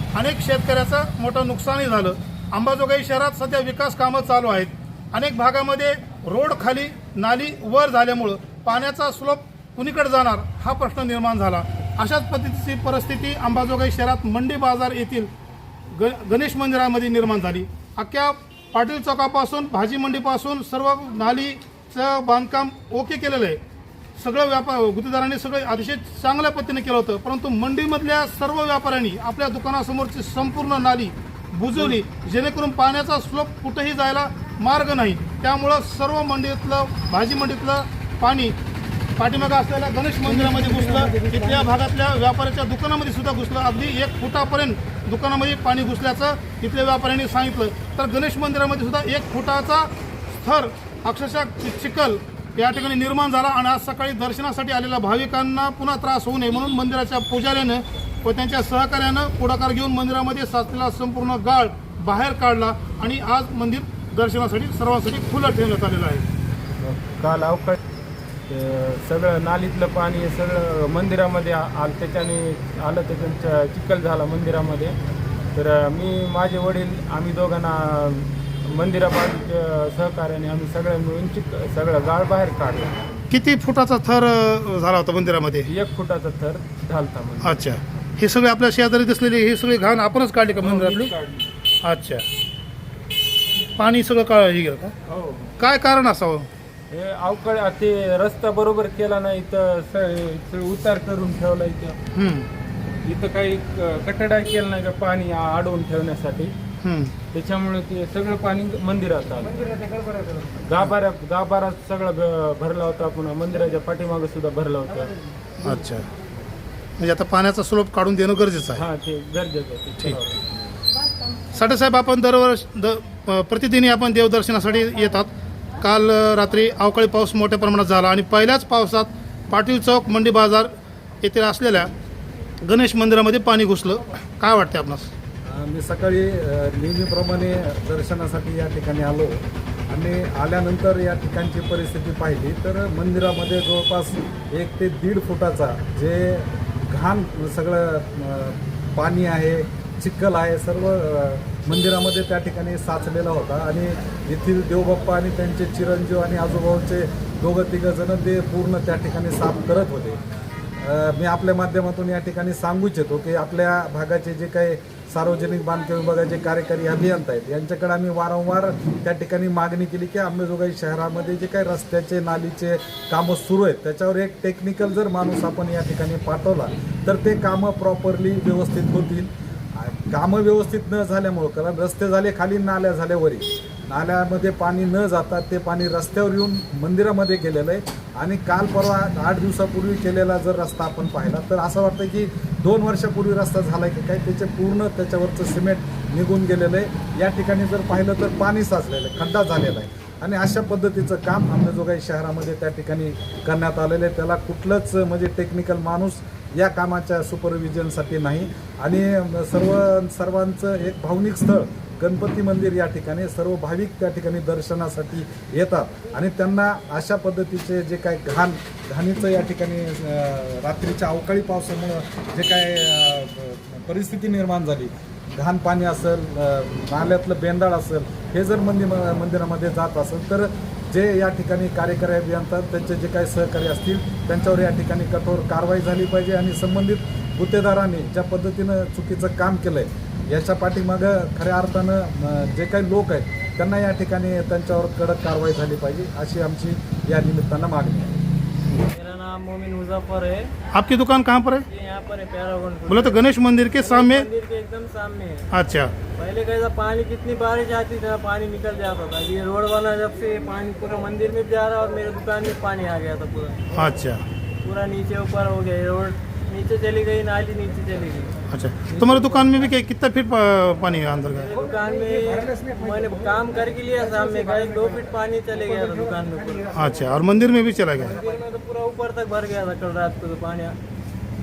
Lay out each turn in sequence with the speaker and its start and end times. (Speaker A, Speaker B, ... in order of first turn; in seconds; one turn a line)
Speaker A: 0.1-15.3
Speaker A: 15.9-23.6
Speaker A: 24.1-38.5
Speaker A: 39.2-66.3
Speaker B: 66.8-67.8
Speaker B: 68.5-75.0
Speaker B: 75.5-83.0
Speaker A: 83.3-85.7
Speaker B: 85.7-87.6
Speaker A: 87.4-91.1
Speaker B: 90.5-91.5
Speaker A: 91.8-92.2
Speaker A: 93.8-94.9
Speaker B: 95.1-95.5
Speaker A: 95.6-96.5
Speaker B: 96.9-102.0
Speaker A: 102.1-102.5
Speaker B: 103.0-106.5
Speaker A: 106.8-107.1
Speaker B: 107.3-115.1
Speaker A: 115.6-116.1
Speaker A: 117.0-118.8
Speaker B: 118.7-120.5
Speaker A: 121.5-125.3
Speaker A: 125.8-131.9
Speaker A: 132.6-135.1
Speaker C: 135.4-160.2
Speaker C: 160.8-248.2
Speaker D: 248.9-250.5
Speaker A: 250.7-251.7
Speaker D: 251.7-253.3
Speaker A: 252.9-254.3
Speaker D: 253.8-255.4
Speaker A: 255.5-255.9
Speaker D: 256.1-263.6
Speaker A: 263.7-264.2
Speaker D: 264.6-268.3
Speaker A: 268.5-271.5
Speaker D: 271.3-276.7
Speaker A: 276.7-278.2
Speaker D: 278.1-280.8